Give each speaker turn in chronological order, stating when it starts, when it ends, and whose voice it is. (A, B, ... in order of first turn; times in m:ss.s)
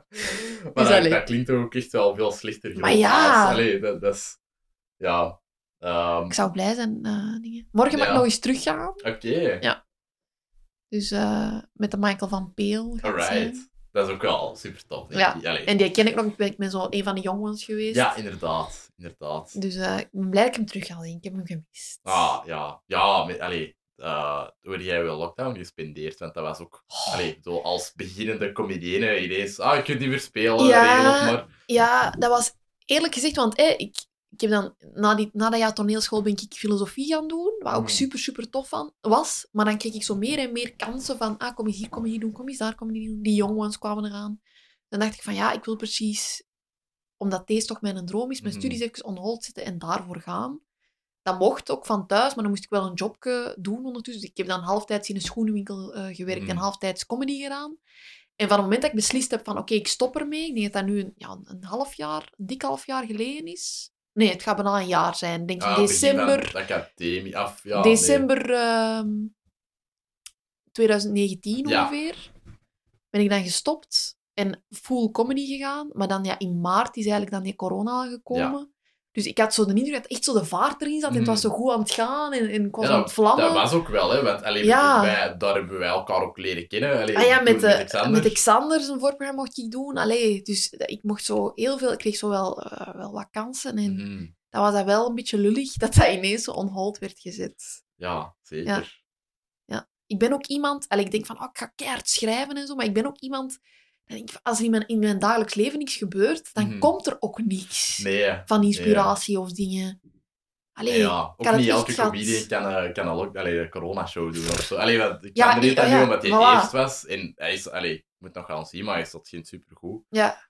0:00.2-0:04.4 A
0:00.8-0:01.2 B
0:02.8-0:03.6 B
0:05.0-0:06.3 A
0:06.3-0:09.0 B
0:07.9-0:08.3 A
0:09.0-0:09.6 A
0:10.9-0:13.6 B
0:13.0-0:15.7 A
0:15.1-0:18.1 B
0:17.9-0:19.6 A
0:19.5-0:22.3 B
0:22.0-0:31.5 A
0:26.9-0:27.2 B
0:30.6-0:44.4 B
0:37.7-0:38.0 A
0:44.9-0:46.4 B
0:47.2-0:50.6 B
0:48.4-0:48.8 A
0:51.2-0:57.8 B
0:56.3-0:56.6 A
0:58.4-1:06.5 B
1:05.6-1:08.2 A
1:07.7-1:09.3 B
1:10.7-1:12.3 B
1:11.6-1:11.9 A
1:13.1-1:23.7 B
1:21.1-1:21.5 A
1:22.8-1:28.4 A
1:24.6-1:25.2 B
1:27.1-1:37.8 B
1:33.8-1:34.3 A
1:38.0-1:39.0 A
1:39.7-1:50.0 B
1:46.6-1:46.9 A
1:48.0-1:49.1 A
1:50.8-1:52.4 B
1:50.9-2:00.0 A
1:55.3-1:56.7 B
2:00.1-2:00.4 B